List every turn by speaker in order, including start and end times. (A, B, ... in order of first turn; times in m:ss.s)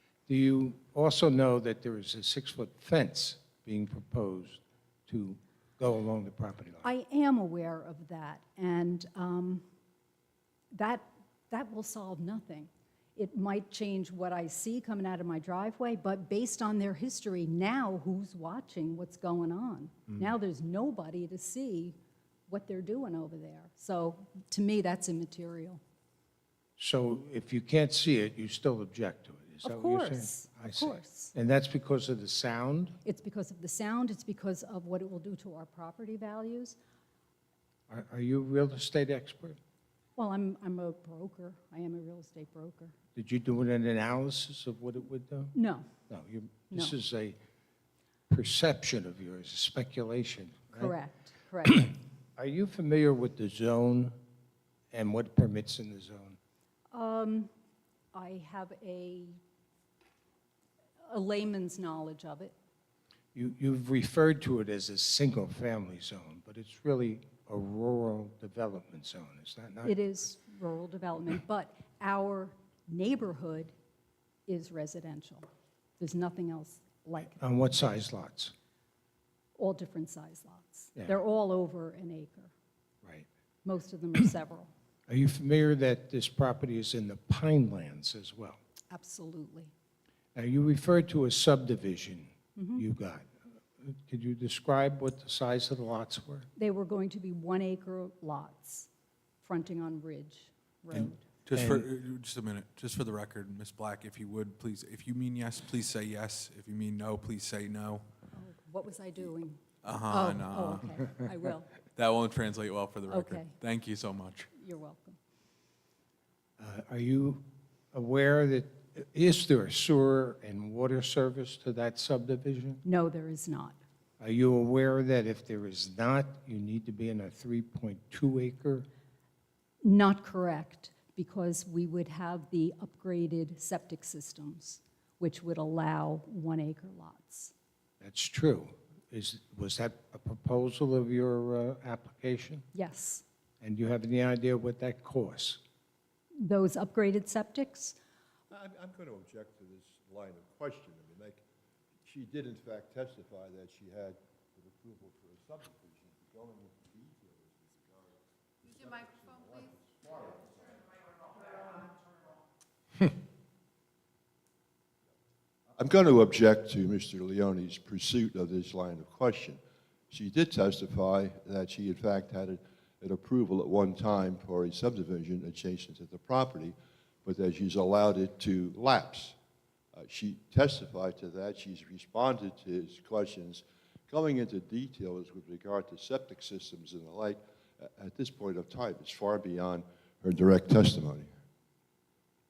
0:00.3-0:06.9 A
0:06.8-0:09.6 B
0:10.7-0:22.0 B
0:22.5-0:25.8 B
0:26.8-0:32.9 A
0:29.6-0:31.3 B
0:33.0-0:36.8 B
0:37.9-0:39.6 A
0:40.2-0:42.9 B
0:43.2-0:45.5 A
0:45.5-0:45.9 B
0:46.1-0:47.4 A
0:48.3-0:50.9 A
0:50.7-0:51.8 B
0:51.6-0:54.1 A
0:54.9-0:56.4 A
0:56.9-0:57.5 B
0:58.1-0:59.4 B
1:01.1-1:02.5 B
1:03.3-1:10.0 A
1:09.8-1:13.7 B
1:14.5-1:15.5 B
1:16.0-1:17.4 B
1:17.4-1:18.5 A
1:19.6-1:22.5 B
1:23.6-1:24.7 B
1:25.1-1:28.6 A
1:28.9-1:29.7 B
1:30.3-1:36.5 A
1:32.6-1:32.8 B
1:36.6-1:38.9 B
1:39.4-1:41.2 B
1:40.9-1:48.0 C
1:41.5-1:41.9 A
1:48.3-1:51.8 B
1:49.8-1:51.0 C
1:51.9-1:54.5 C
1:53.1-1:53.5 B
1:54.5-1:55.2 B
1:56.6-2:02.8 A
2:02.8-2:03.8 B
2:04.2-2:08.8 A
2:09.8-2:17.5 B
2:18.0-2:22.6 A
2:22.7-2:23.2 B
2:23.6-2:25.6 A
2:26.4-2:28.0 B
2:28.5-2:31.4 D
2:32.0-2:41.0 D
2:45.8-2:59.4 D
2:59.9-3:11.3 D